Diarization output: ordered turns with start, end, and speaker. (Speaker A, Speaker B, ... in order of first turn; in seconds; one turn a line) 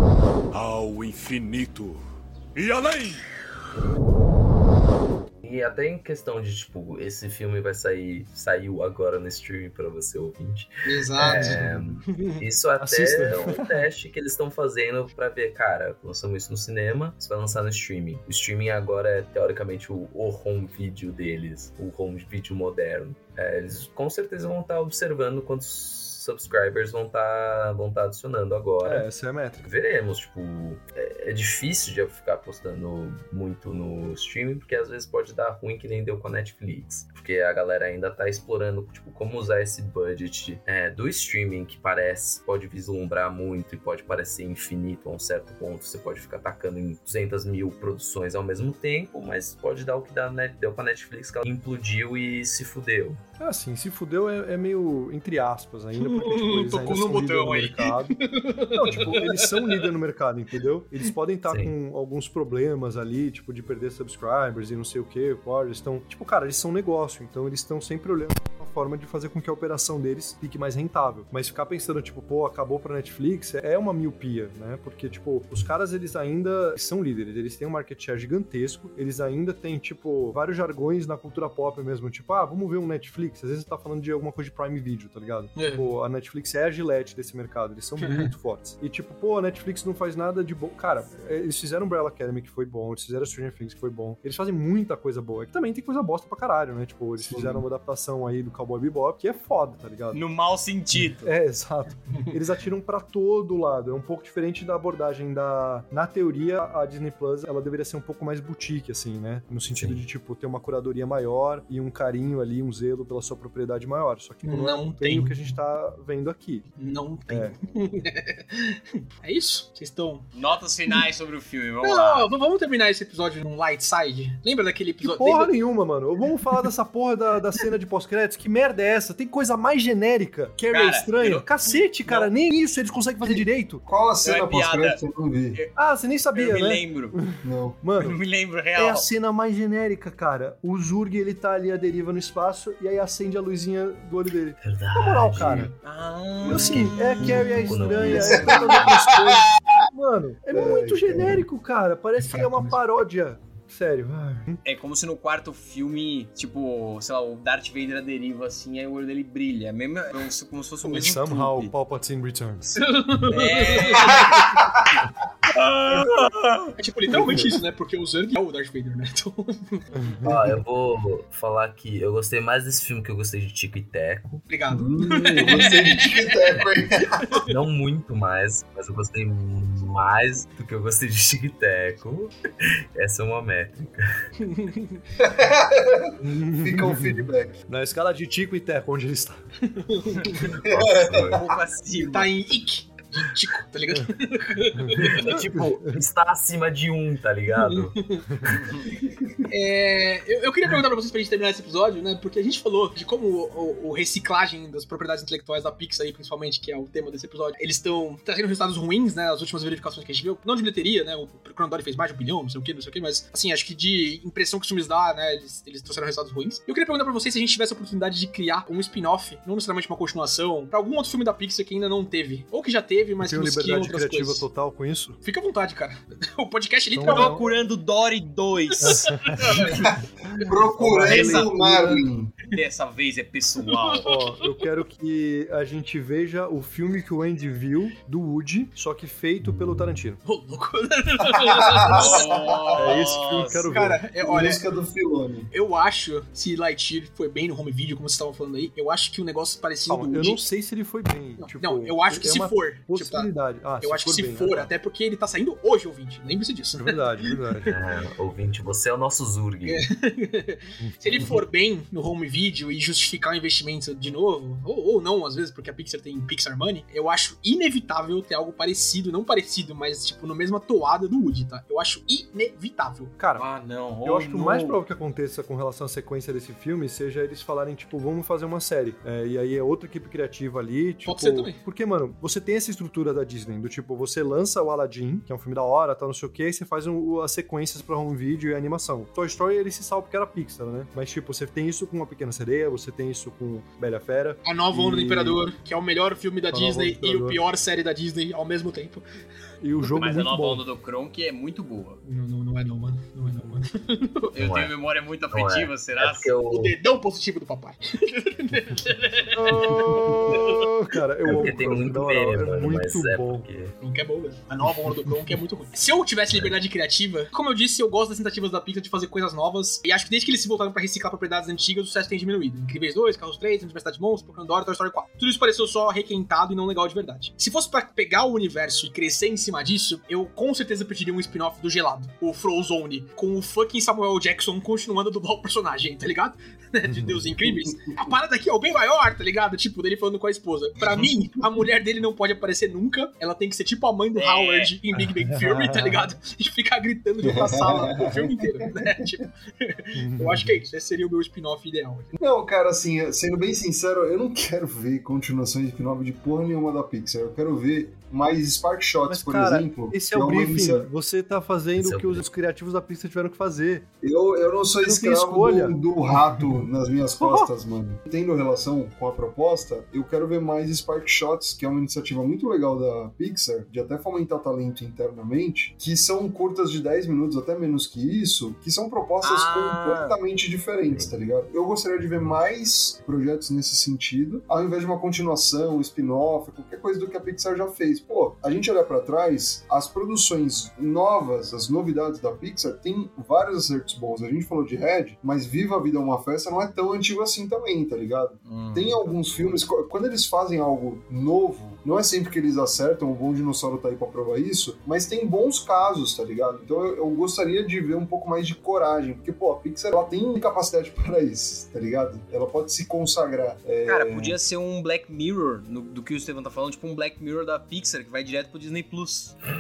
Speaker A: 0.5-2.0
Speaker A: 2.6-3.2
Speaker B: 5.4-29.1
Speaker C: 10.9-12.4
Speaker D: 11.2-11.9
Speaker D: 12.8-13.8
Speaker D: 28.8-29.6
Speaker B: 29.6-53.2
Speaker D: 53.4-58.2
Speaker C: 56.0-59.9
Speaker D: 58.7-100.2
Speaker B: 61.5-61.7
Speaker C: 85.6-85.9
Speaker C: 88.0-88.3
Speaker E: 97.2-97.6
Speaker F: 100.1-101.3
Speaker D: 101.2-116.7
Speaker C: 114.4-115.4
Speaker C: 116.8-120.3
Speaker D: 117.3-117.6
Speaker F: 120.3-122.3
Speaker C: 121.8-125.5
Speaker D: 125.0-133.8
Speaker F: 130.7-131.5
Speaker F: 132.1-132.3
Speaker E: 133.2-135.6
Speaker F: 134.2-135.0
Speaker D: 135.8-138.2
Speaker F: 136.3-137.2
Speaker E: 137.4-137.8
Speaker F: 138.0-139.1
Speaker D: 138.7-145.7
Speaker B: 144.6-145.7
Speaker F: 145.8-147.1
Speaker B: 146.4-148.9
Speaker D: 146.4-154.6
Speaker E: 147.9-149.5
Speaker E: 150.5-151.4
Speaker C: 152.4-152.8
Speaker F: 154.6-161.7
Speaker D: 160.8-162.9
Speaker C: 162.8-164.4
Speaker F: 163.3-164.3
Speaker F: 165.5-166.8
Speaker C: 166.8-169.9
Speaker E: 167.2-167.5
Speaker D: 170.0-170.3
Speaker B: 170.2-174.4
Speaker E: 170.2-170.6
Speaker C: 174.5-176.6
Speaker E: 174.7-177.3
Speaker C: 177.2-177.5
Speaker B: 177.4-184.2
Speaker C: 184.4-185.0
Speaker E: 185.2-187.6
Speaker D: 186.2-189.4
Speaker C: 189.7-190.5
Speaker B: 190.4-191.4
Speaker E: 190.7-191.3
Speaker F: 191.3-192.3
Speaker C: 192.1-195.2
Speaker D: 194.8-196.0
Speaker B: 195.0-198.1
Speaker C: 197.6-198.3
Speaker C: 199.5-224.5
Speaker D: 223.2-225.2
Speaker C: 225.2-227.4
Speaker D: 226.9-227.5
Speaker F: 227.1-229.9
Speaker D: 228.8-229.7
Speaker C: 228.8-230.4
Speaker E: 229.7-232.3
Speaker D: 230.4-232.0
Speaker F: 231.0-234.1
Speaker C: 233.7-234.5
Speaker D: 234.0-240.2
Speaker C: 240.2-242.4
Speaker E: 241.3-242.0
Speaker F: 241.9-243.7
Speaker D: 242.7-244.1
Speaker C: 243.7-244.6
Speaker E: 244.2-245.5
Speaker C: 245.5-250.5
Speaker D: 249.9-254.7
Speaker C: 251.4-253.3
Speaker C: 253.8-257.8
Speaker D: 256.8-257.7
Speaker B: 257.7-259.9
Speaker C: 259.6-273.2
Speaker D: 260.8-261.4
Speaker D: 273.2-273.5
Speaker F: 273.4-274.8
Speaker D: 274.0-295.4
Speaker C: 281.0-281.6
Speaker C: 294.4-299.2
Speaker D: 296.5-297.4
Speaker D: 299.6-300.6
Speaker F: 299.9-302.0
Speaker C: 302.0-304.3
Speaker F: 304.3-306.3
Speaker B: 304.4-304.7
Speaker B: 305.3-306.8
Speaker C: 306.5-310.7
Speaker D: 309.3-313.5
Speaker B: 311.2-313.8
Speaker C: 313.8-352.2
Speaker D: 314.9-315.3
Speaker D: 336.9-337.3
Speaker E: 337.4-337.8
Speaker F: 344.1-344.7
Speaker D: 345.4-346.1
Speaker E: 347.2-348.3
Speaker D: 349.9-350.6
Speaker E: 352.2-360.9
Speaker D: 359.1-363.9
Speaker B: 361.8-362.3
Speaker E: 364.0-414.4
Speaker D: 364.8-366.4
Speaker D: 367.2-367.5
Speaker F: 379.2-380.2
Speaker F: 398.4-399.6
Speaker F: 413.9-419.4